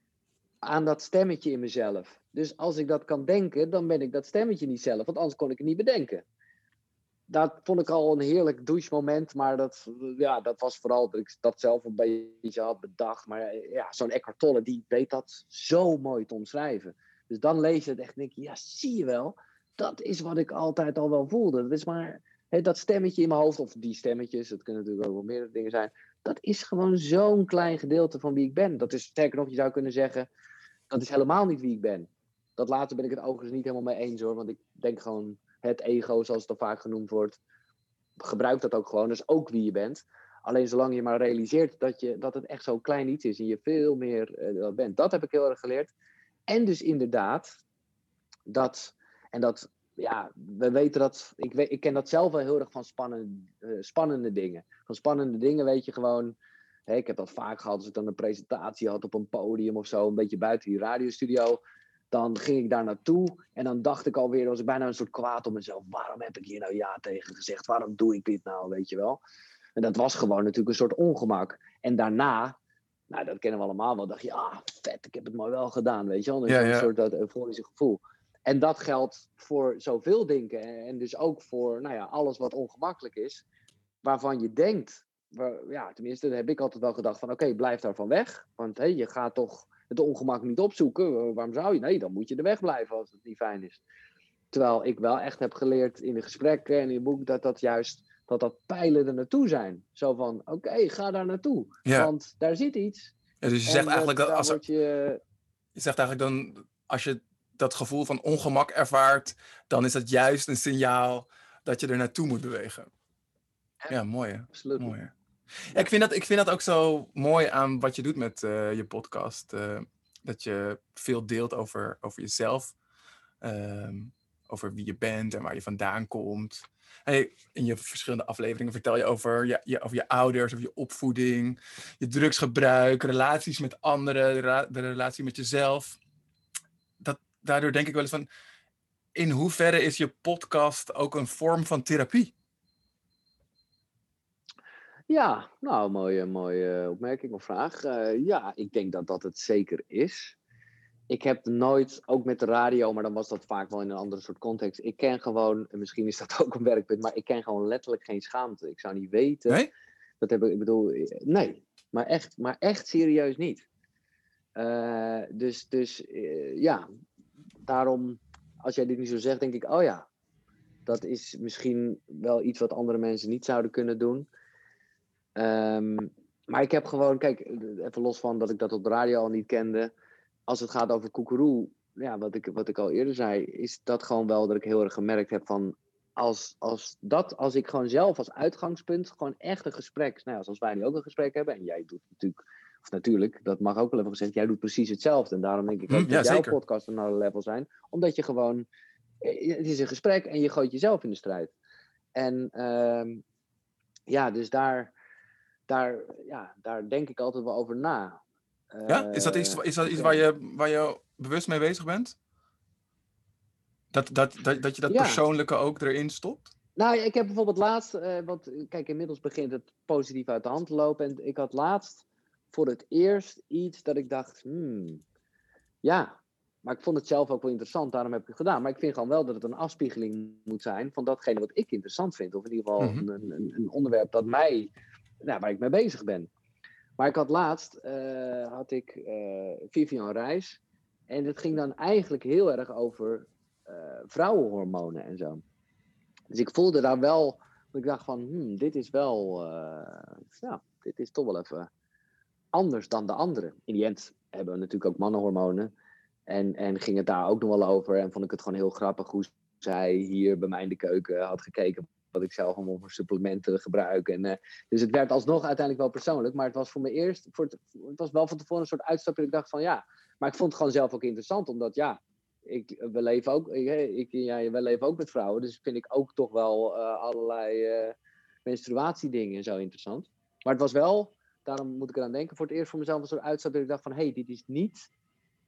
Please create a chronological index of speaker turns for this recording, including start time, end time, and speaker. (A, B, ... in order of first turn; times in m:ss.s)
0:00.6-0:06.2 A
0:07.3-0:30.3 A
0:30.9-0:37.4 A
0:38.2-0:45.9 A
0:46.5-0:47.6 A
0:48.5-0:56.4 A
0:56.9-1:01.6 A
1:02.1-1:09.2 A
1:09.8-1:12.6 A
1:13.1-1:23.4 A
1:16.5-1:16.9 B
1:24.0-1:33.8 A
1:34.5-1:43.1 A
1:43.4-1:44.6 B
1:43.7-1:45.2 A
1:45.8-1:52.9 B
1:53.9-1:55.1 B
1:54.5-1:55.0 A
1:55.7-2:02.7 B
2:03.4-2:16.0 B
2:17.0-2:18.3 B
2:19.2-2:22.3 B
2:25.1-2:30.4 A
2:31.1-2:39.6 A
2:40.2-2:43.6 A
2:44.6-2:46.8 A
2:47.7-2:50.0 A
2:50.9-2:54.3 A
2:55.4-2:59.9 A
3:00.5-3:18.7 A
3:15.9-3:16.6 B
3:19.2-3:21.5 A
3:22.2-3:23.2 A
3:24.1-3:24.9 A
3:25.7-3:28.2 A
3:28.7-3:30.2 A
3:28.9-3:32.2 B
3:33.9-3:36.5 B
3:34.9-3:35.2 A
3:36.8-3:45.0 A
3:45.8-3:54.7 A
3:52.8-3:53.0 B
3:55.2-3:56.3 A
3:57.0-4:00.6 A
4:01.1-4:05.4 A
4:06.3-4:11.7 A
4:12.5-4:15.7 A
4:16.3-4:37.9 A
4:38.5-4:44.9 A